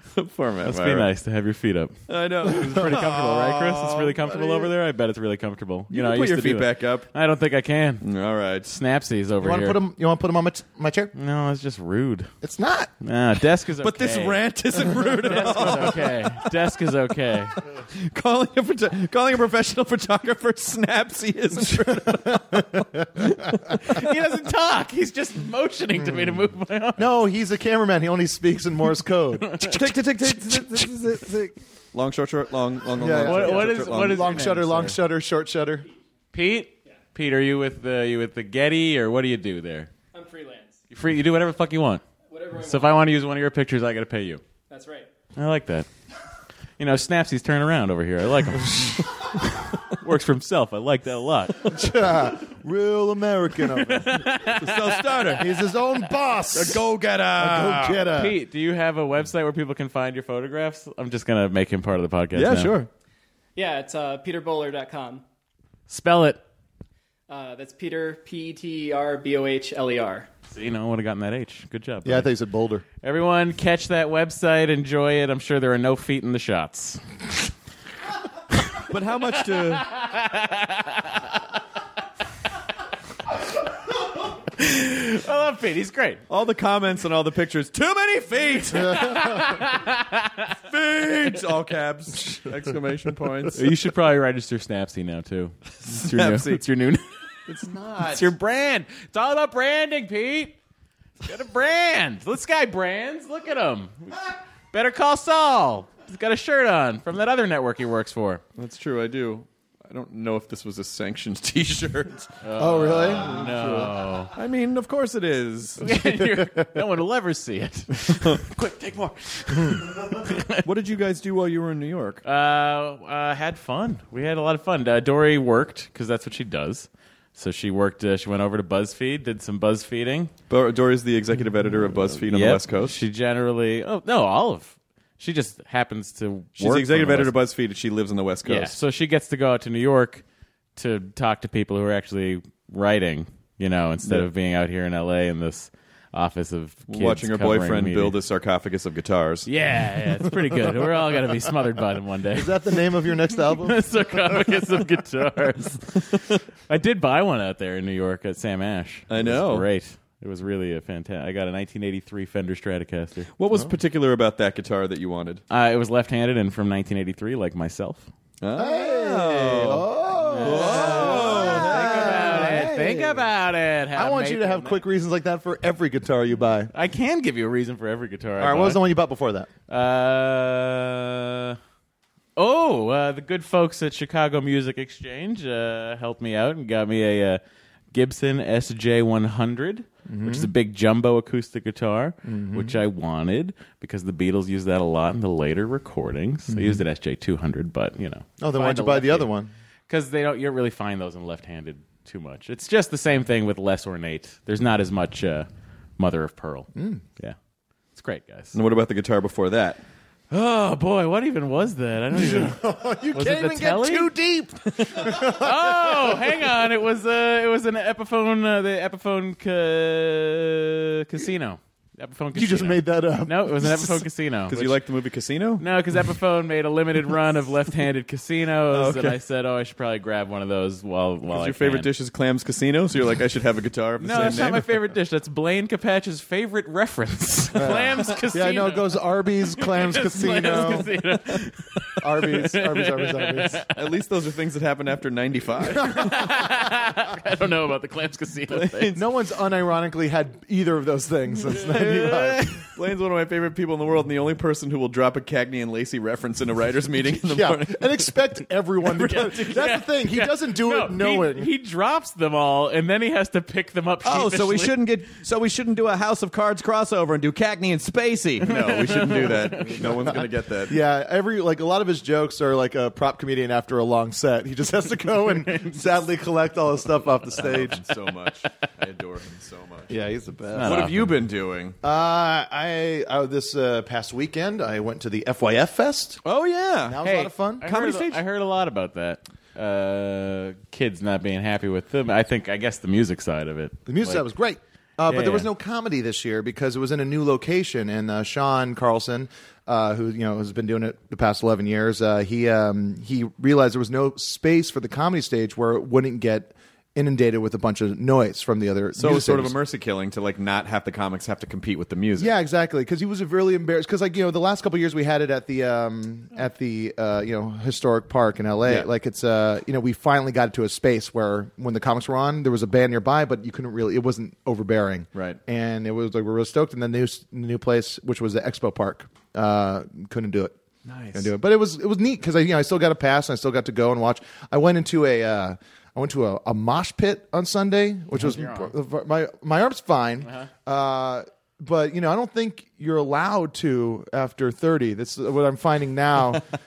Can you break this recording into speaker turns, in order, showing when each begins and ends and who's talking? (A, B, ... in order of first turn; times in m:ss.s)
0:00.1-0:01.1 A
0:00.6-0:08.0 B
0:02.1-0:04.6 A
0:05.9-0:07.1 A
0:08.0-0:08.8 A
0:08.7-0:09.8 B
0:09.4-0:11.1 C
0:11.2-0:12.3 B
0:12.4-0:12.9 C
0:13.0-0:17.6 B
0:13.8-0:16.2 A
0:17.9-0:24.1 A
0:21.7-0:23.8 C
0:23.8-0:27.1 B
0:26.0-0:29.7 C
0:29.5-0:29.8 B
0:29.6-0:34.4 A
0:33.0-0:35.9 C
0:33.1-0:35.0 B
0:36.3-0:39.9 B
0:40.1-0:40.8 D
0:40.9-0:42.0 B
0:42.3-0:43.0 D
0:42.6-0:44.4 B
0:44.7-0:45.1 D
0:45.4-0:45.9 B
0:46.8-0:51.7 B
0:51.6-0:54.3 C
0:53.7-0:55.5 B
0:54.4-0:55.5 A
0:55.3-0:56.8 C
0:56.5-0:58.1 A
0:57.4-0:58.4 C
0:58.1-1:02.8 B
1:02.3-1:02.9 A
1:03.6-1:05.2 D
1:05.9-1:06.4 B
1:07.3-1:10.3 D
1:10.5-1:12.3 B
1:12.0-1:12.8 C
1:13.0-1:17.2 B
1:18.8-1:19.9 A
1:19.5-1:21.4 B
1:23.9-1:26.2 B
1:26.3-1:29.5 A
1:28.7-1:30.6 B
1:30.7-1:33.7 A
1:33.5-1:37.1 B
1:35.8-1:36.6 A
1:37.5-1:38.3 A
1:38.1-1:40.6 B
1:41.2-1:48.4 B
1:48.6-1:52.3 A
1:52.4-1:54.3 B
1:52.6-1:53.6 C
1:53.2-1:55.9 A
1:55.8-2:00.6 B
2:00.6-2:02.2 A
2:02.2-2:10.3 B
2:10.5-2:13.0 A
2:12.2-2:17.4 B
2:16.6-2:18.8 A
2:18.4-2:20.2 B
2:20.8-2:28.2 B
2:26.9-2:29.5 A
2:29.5-2:43.3 B
2:32.3-2:33.8 C
2:39.1-2:39.7 A
2:43.4-2:45.4 A
2:45.5-2:48.1 B
2:48.4-2:49.9 A
2:48.6-2:53.3 C
2:50.2-2:54.8 B
2:50.4-2:52.6 A
2:53.9-2:56.7 C
2:56.7-2:58.8 B
2:58.4-2:59.5 C
2:59.7-3:01.6 B
3:02.4-3:07.4 B
3:07.9-3:19.3 B
3:10.1-3:10.5 C
3:12.2-3:12.8 C
3:16.5-3:16.8 C
3:18.4-3:19.5 C
3:19.9-3:25.5 B
3:26.0-3:27.4 B
3:26.8-3:27.0 C
3:28.0-3:28.6 B
3:28.5-3:29.8 A
3:30.3-3:32.6 B
3:32.1-3:36.3 C
3:33.1-3:34.1 B
3:35.0-3:44.8 B
3:42.3-3:44.0 C
3:44.5-3:45.6 A
3:45.6-3:51.9 B
3:48.7-3:49.2 A
3:51.3-3:54.7 A
3:54.0-3:59.0 B
3:57.6-4:00.9 C
3:59.5-4:03.7 B
4:02.0-4:03.6 C
4:03.7-4:06.2 A
4:05.8-4:06.3 C
4:05.8-4:09.0 B
4:08.5-4:09.0 A
4:09.0-4:12.5 C
4:11.7-4:18.2 A
4:11.8-4:12.2 B
4:17.2-4:21.5 C
4:19.0-4:24.9 B
4:24.0-4:30.8 A
4:28.5-4:29.9 B
4:29.7-4:37.8 C
4:35.5-4:35.8 B
4:37.4-4:39.9 A
4:39.9-4:40.9 C
4:40.6-4:41.1 B
4:40.6-4:41.8 A
4:41.8-4:46.2 C
4:46.2-4:47.0 A
4:46.9-4:47.6 C
4:47.0-4:54.3 B
4:47.6-4:48.2 A
4:53.9-5:09.6 C
4:55.1-4:55.5 B
5:09.0-5:12.3 A
5:12.2-5:30.6 C
5:25.1-5:25.4 A
5:30.8-5:31.3 A
5:31.1-5:46.5 C
5:38.2-5:38.7 B
5:40.2-5:40.5 B